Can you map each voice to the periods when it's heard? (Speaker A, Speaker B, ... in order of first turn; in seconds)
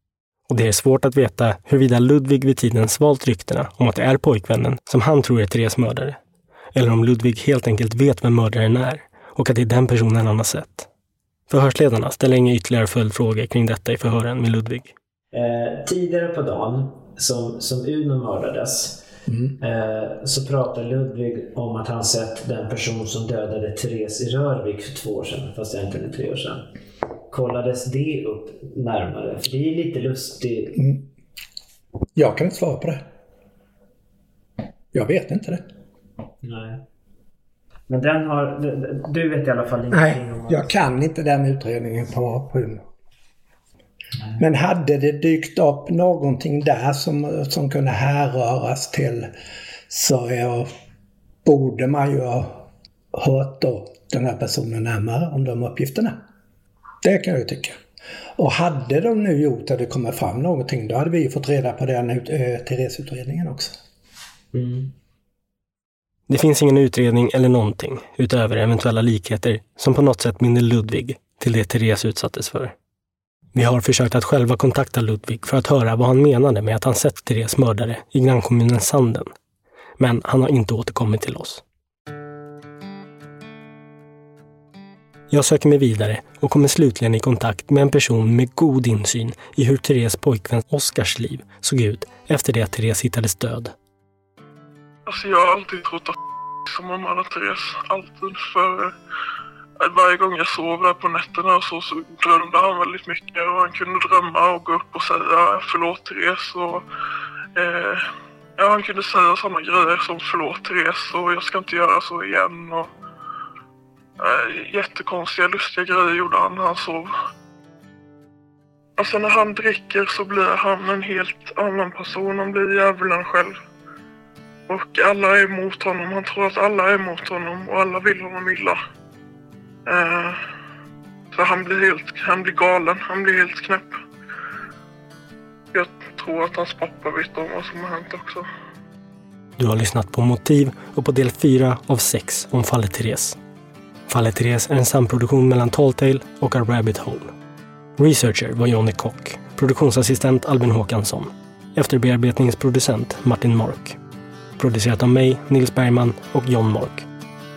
Speaker A: 0.5-6.2, 6.7-10.9, 11.5-14.9, 66.3-72.7, 73.5-79.3, 80.0-81.6, 85.3-93.7, 139.6-143.4, 144.1-147.3, 148.0-154.0, 154.6-157.1
Speaker B: 15.3-19.1, 19.6-26.7, 27.3-30.8, 36.4-36.8, 37.9-40.7, 44.1-44.4, 64.5-64.9
Speaker C: 19.3-19.6, 30.7-31.1, 32.1-33.0, 34.9-35.6, 39.9-42.8, 44.4-49.3, 49.9-50.7, 51.4-56.2, 57.0-57.8, 58.4-63.8
Speaker D: 95.1-96.2, 96.7-98.9, 99.8-106.8, 107.5-108.0, 108.6-112.9, 114.2-117.1, 119.0-123.5, 124.7-128.8, 129.8-130.4, 131.3-133.9, 135.7-138.4